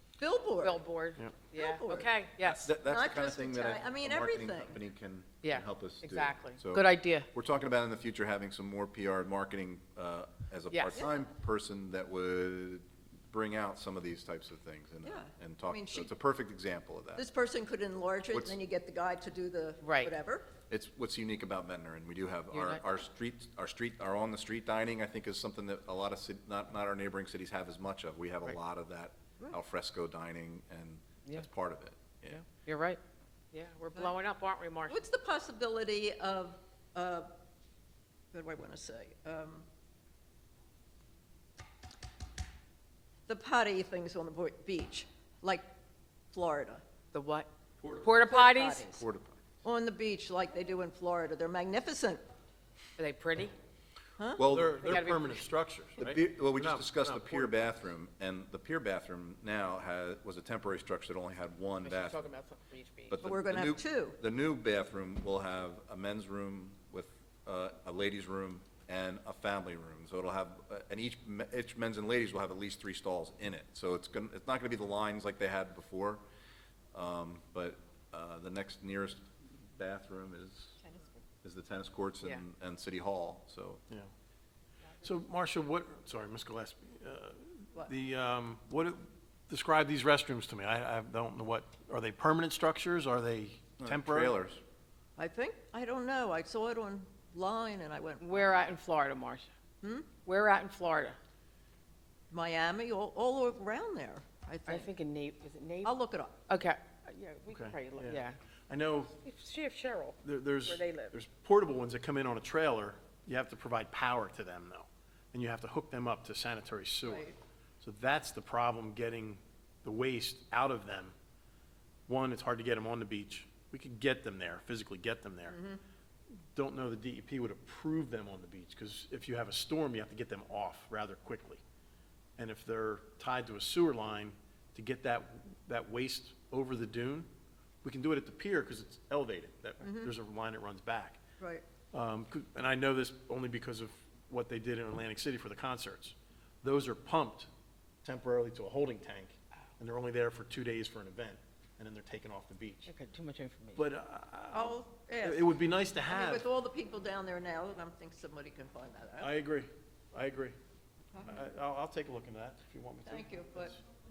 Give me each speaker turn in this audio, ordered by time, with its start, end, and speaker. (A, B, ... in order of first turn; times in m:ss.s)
0:00.2-0:00.8 A
0:00.6-0:02.7 B
0:01.6-0:02.1 A
0:01.9-0:17.2 C
0:02.8-0:04.8 A
0:05.4-0:07.3 B
0:10.7-0:11.0 B
0:15.0-0:16.1 A
0:17.2-0:20.5 A
0:19.8-0:20.1 B
0:20.7-0:32.4 C
0:22.5-0:22.8 B
0:32.3-0:33.0 B
0:33.5-0:35.0 B
0:34.9-0:37.3 A
0:38.3-0:39.7 A
0:43.3-0:45.7 A
0:46.3-0:46.8 A
0:47.1-0:49.0 B
0:48.2-0:49.0 A
0:48.9-0:49.4 C
0:49.6-0:52.2 A
0:53.0-0:53.5 B
0:54.4-0:54.9 C
0:54.4-0:57.5 D
0:54.8-0:55.3 B
0:56.0-1:02.2 C
1:01.8-1:03.2 B
1:03.1-1:16.2 C
1:03.2-1:04.2 A
1:16.9-1:20.8 C
1:20.8-1:21.2 A
1:21.4-1:23.8 C
1:25.0-1:34.4 D
1:33.8-1:34.6 C
1:35.2-1:38.6 A
1:38.2-1:39.5 B
1:39.8-1:40.1 A
1:40.2-1:41.2 B
1:42.3-1:44.9 A
1:44.7-1:45.9 B
1:45.8-1:46.4 A
1:46.5-1:48.4 B
1:47.5-1:49.2 D
1:49.2-1:51.2 B
1:50.2-1:57.3 D
1:57.0-1:57.3 A
1:57.8-2:01.2 D
2:02.1-2:05.6 D
2:05.5-2:05.8 A
2:06.5-2:11.6 D
2:12.4-2:17.3 D
2:17.8-2:21.2 D
2:19.8-2:20.1 A
2:21.4-2:21.6 A
2:21.9-2:27.5 D
2:28.0-2:32.9 D
2:32.9-2:33.8 B
2:33.8-2:36.5 D
2:34.5-2:35.5 A
2:36.1-2:39.3 A
2:39.2-2:40.6 D
2:41.1-2:41.4 A
2:41.2-2:43.8 D
2:43.0-2:43.8 A